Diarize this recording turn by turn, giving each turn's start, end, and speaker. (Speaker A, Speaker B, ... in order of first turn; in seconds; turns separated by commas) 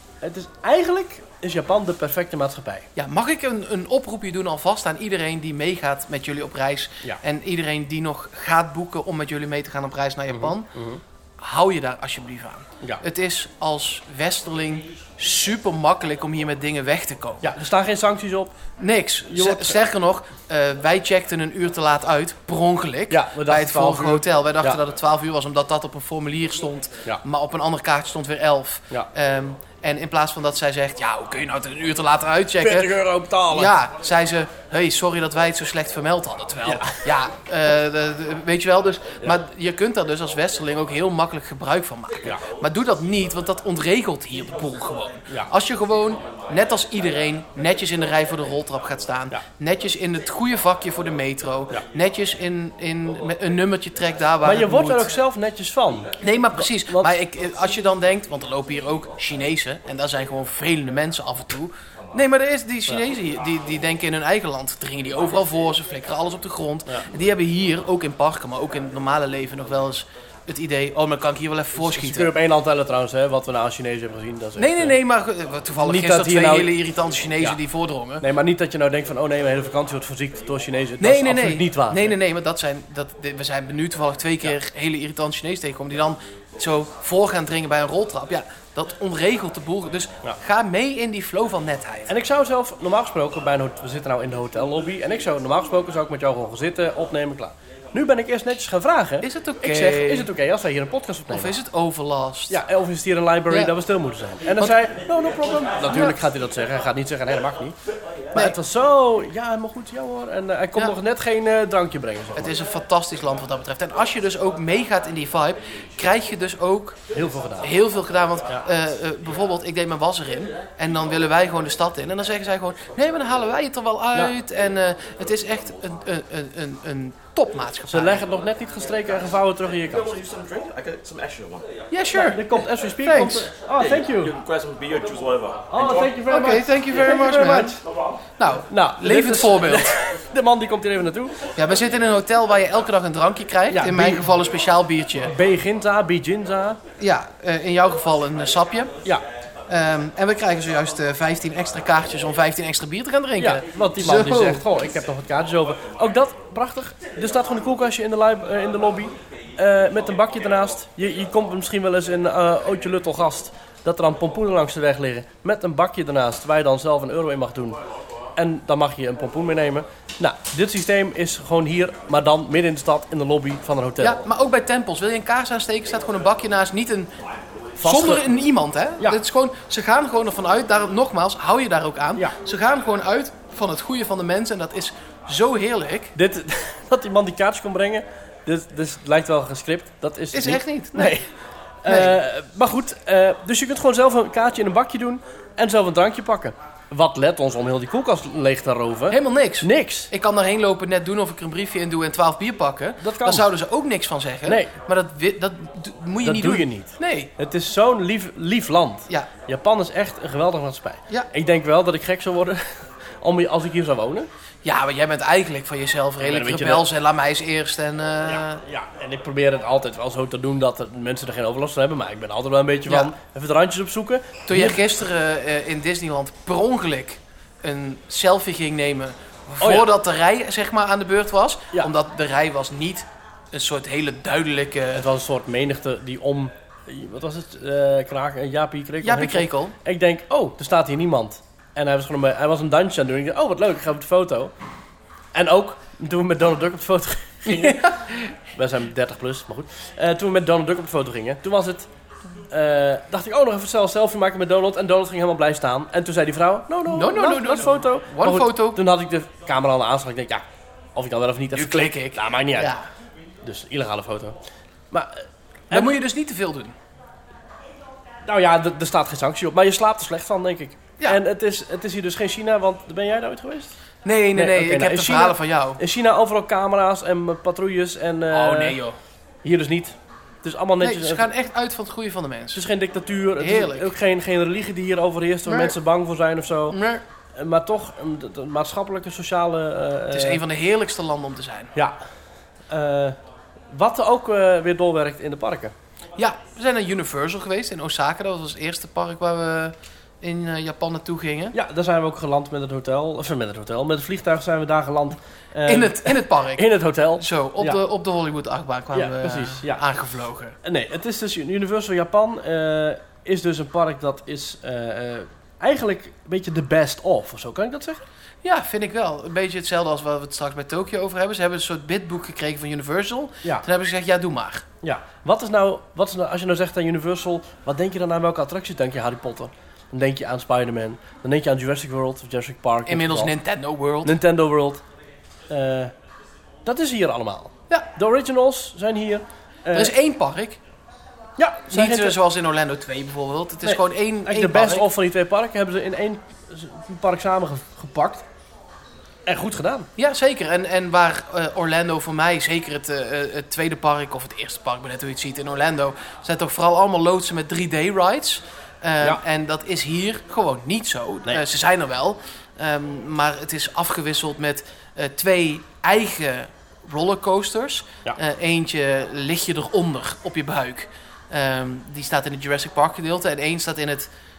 Speaker A: 0.2-2.9, Speaker B: 3.0-10.7, Speaker A: 10.3-11.0, Speaker B: 11.4-17.5, Speaker A: 17.4-18.5, Speaker B: 18.8-33.0, Speaker A: 19.3-19.8, Speaker A: 23.1-24.8, Speaker A: 32.6-33.7, Speaker B: 33.5-55.1, Speaker A: 36.6-37.0, Speaker A: 54.4-57.1, Speaker B: 56.2-72.3, Speaker A: 71.8-75.0, Speaker B: 74.6-78.2, Speaker A: 75.8-76.7, Speaker A: 78.2-82.1, Speaker B: 81.0-92.1, Speaker A: 92.1-101.5, Speaker B: 99.2-100.3, Speaker B: 101.3-102.6, Speaker A: 102.5-107.8, Speaker B: 103.5-103.7, Speaker B: 105.8-106.2, Speaker A: 108.3-112.5, Speaker B: 112.3-117.0, Speaker A: 117.1-117.7, Speaker B: 117.6-128.2, Speaker A: 127.9-130.2, Speaker C: 129.9-131.7, Speaker B: 131.9-133.5, Speaker A: 132.1-134.3, Speaker C: 133.8-136.1, Speaker A: 135.7-137.8, Speaker B: 136.2-137.8, Speaker B: 138.4-140.0, Speaker A: 138.7-141.5, Speaker B: 141.5-145.3, Speaker A: 143.7-144.3, Speaker A: 145.2-146.8, Speaker B: 147.0-148.9, Speaker B: 149.7-154.6, Speaker A: 153.4-167.8, Speaker A: 168.3-174.2, Speaker B: 174.0-177.1, Speaker A: 177.8-178.3, Speaker B: 177.8-186.1, Speaker A: 186.1-191.3, Speaker B: 190.3-191.2, Speaker A: 191.8-200.1, Speaker B: 191.9-192.2, Speaker B: 199.1-207.3, Speaker A: 203.0-203.4, Speaker A: 204.4-204.8, Speaker A: 206.2-214.3, Speaker B: 214.6-218.6, Speaker A: 216.2-216.8, Speaker A: 218.3-224.8, Speaker B: 222.9-223.1, Speaker B: 224.5-235.1, Speaker A: 229.6-229.9, Speaker A: 234.9-244.5, Speaker B: 239.0-239.7, Speaker A: 245.3-251.9, Speaker B: 247.4-248.3, Speaker A: 252.5-262.7, Speaker B: 256.9-258.8, Speaker B: 261.5-262.9, Speaker A: 263.4-264.4, Speaker A: 264.9-266.0, Speaker B: 265.7-266.7, Speaker A: 268.2-273.7, Speaker B: 274.0-275.8, Speaker A: 274.3-278.8, Speaker B: 278.3-279.0, Speaker A: 279.4-281.2, Speaker B: 280.8-282.6, Speaker A: 282.5-286.8, Speaker B: 283.4-283.9, Speaker B: 285.4-285.8, Speaker B: 286.7-287.0, Speaker A: 287.3-290.4, Speaker B: 290.1-291.7, Speaker A: 292.7-293.2, Speaker A: 293.7-295.7, Speaker B: 296.2-301.6, Speaker A: 301.5-307.8, Speaker B: 305.6-310.6, Speaker A: 308.9-309.8, Speaker A: 310.6-318.0, Speaker B: 318.4-324.7, Speaker A: 324.8-333.3, Speaker B: 332.9-334.2, Speaker A: 334.0-334.8, Speaker A: 335.5-335.9, Speaker A: 336.6-339.9, Speaker B: 339.7-340.6, Speaker A: 341.4-342.2, Speaker B: 341.7-344.9, Speaker A: 343.6-348.2, Speaker A: 349.2-349.9, Speaker B: 350.0-374.1